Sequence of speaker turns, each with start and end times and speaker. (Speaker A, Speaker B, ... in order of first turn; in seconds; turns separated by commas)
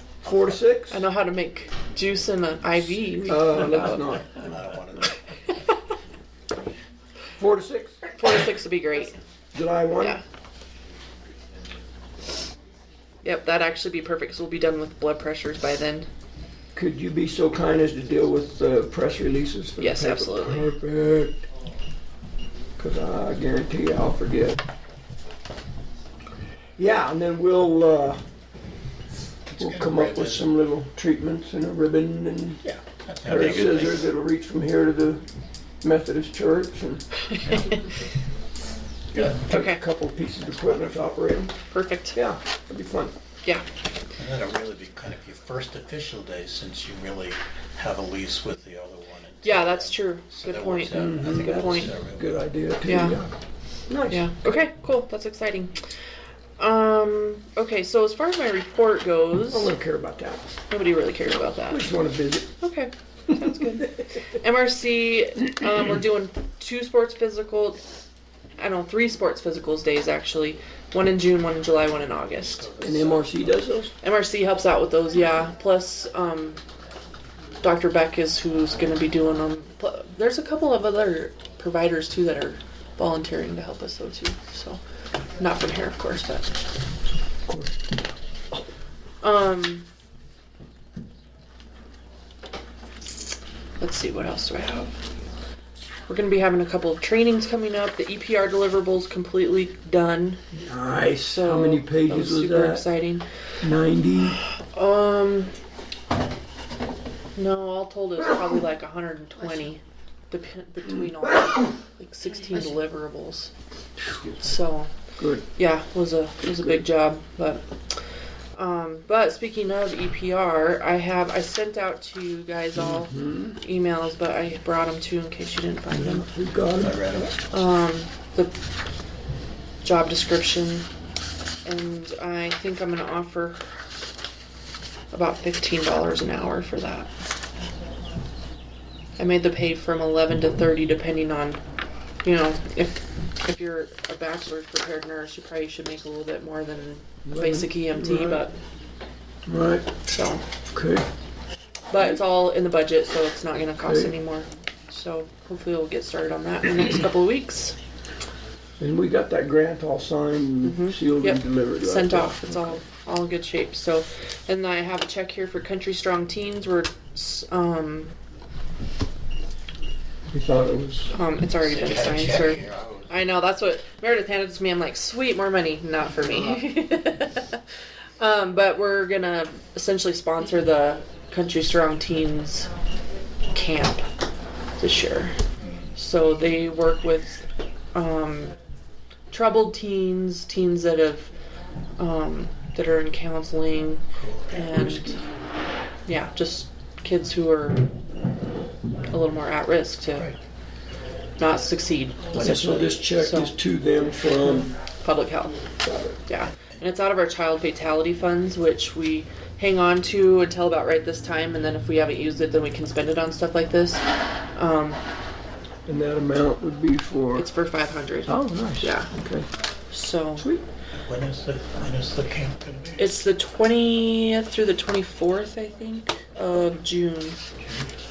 Speaker A: 0.2-1.0, Speaker B: 0.9-4.0, Speaker A: 3.2-4.4, Speaker C: 4.0-5.2, Speaker A: 7.4-8.1, Speaker B: 8.2-9.2, Speaker A: 9.5-10.2, Speaker B: 13.2-16.1, Speaker A: 16.7-21.4, Speaker B: 19.8-20.7, Speaker A: 22.8-24.6, Speaker A: 26.8-28.2, Speaker C: 29.4-30.5, Speaker A: 29.6-32.6, Speaker C: 32.6-34.1, Speaker A: 33.2-35.2, Speaker A: 35.8-37.0, Speaker B: 37.3-37.8, Speaker C: 39.1-39.4, Speaker A: 39.2-41.5, Speaker B: 39.4-39.8, Speaker C: 40.4-41.2, Speaker B: 41.5-42.2, Speaker A: 42.1-43.1, Speaker C: 44.2-52.4, Speaker B: 49.4-51.9, Speaker A: 50.9-53.3, Speaker B: 52.8-53.2, Speaker A: 53.9-54.3, Speaker B: 54.1-55.8, Speaker B: 56.6-59.7, Speaker A: 59.5-60.5, Speaker B: 60.7-61.8, Speaker A: 61.6-62.5, Speaker B: 62.6-67.8, Speaker B: 68.6-72.8, Speaker C: 72.4-73.7, Speaker A: 72.8-73.9, Speaker B: 74.0-76.6, Speaker B: 77.6-84.8, Speaker B: 85.4-86.5, Speaker A: 87.5-87.7, Speaker B: 89.2-89.9, Speaker B: 93.8-94.9, Speaker B: 96.1-100.4, Speaker A: 100.5-102.9, Speaker B: 101.2-103.2, Speaker A: 103.6-104.4, Speaker B: 104.7-105.5, Speaker B: 107.3-113.5, Speaker B: 114.4-114.9, Speaker A: 115.2-115.5, Speaker B: 115.5-117.6, Speaker B: 118.5-126.3, Speaker A: 122.8-123.6, Speaker A: 125.9-127.3, Speaker C: 126.8-127.4, Speaker B: 127.5-128.5, Speaker B: 129.8-130.9, Speaker B: 131.6-133.6, Speaker B: 135.1-137.1, Speaker B: 139.2-141.6, Speaker B: 142.2-148.5, Speaker A: 147.2-148.4, Speaker A: 149.4-149.9, Speaker B: 150.1-150.4, Speaker A: 150.7-151.1, Speaker B: 151.9-157.8, Speaker A: 153.8-154.2, Speaker A: 158.8-162.8, Speaker B: 160.6-168.1, Speaker A: 170.3-171.1, Speaker B: 171.1-177.6, Speaker C: 171.6-173.3, Speaker B: 178.2-182.7, Speaker B: 183.5-184.0, Speaker B: 184.8-185.4, Speaker B: 186.0-188.5, Speaker B: 189.3-191.3, Speaker B: 192.0-195.2, Speaker C: 194.1-194.6, Speaker A: 194.7-195.3, Speaker B: 196.1-197.9, Speaker B: 199.1-200.3, Speaker B: 201.4-203.6, Speaker C: 202.3-203.0, Speaker A: 202.3-204.7, Speaker B: 204.4-205.6, Speaker A: 205.8-206.1, Speaker B: 206.3-214.0, Speaker B: 214.5-215.0, Speaker A: 215.8-217.5, Speaker B: 217.3-219.1, Speaker A: 218.3-219.5, Speaker B: 219.9-220.5, Speaker A: 220.3-220.6, Speaker C: 220.9-223.2, Speaker B: 223.0-227.4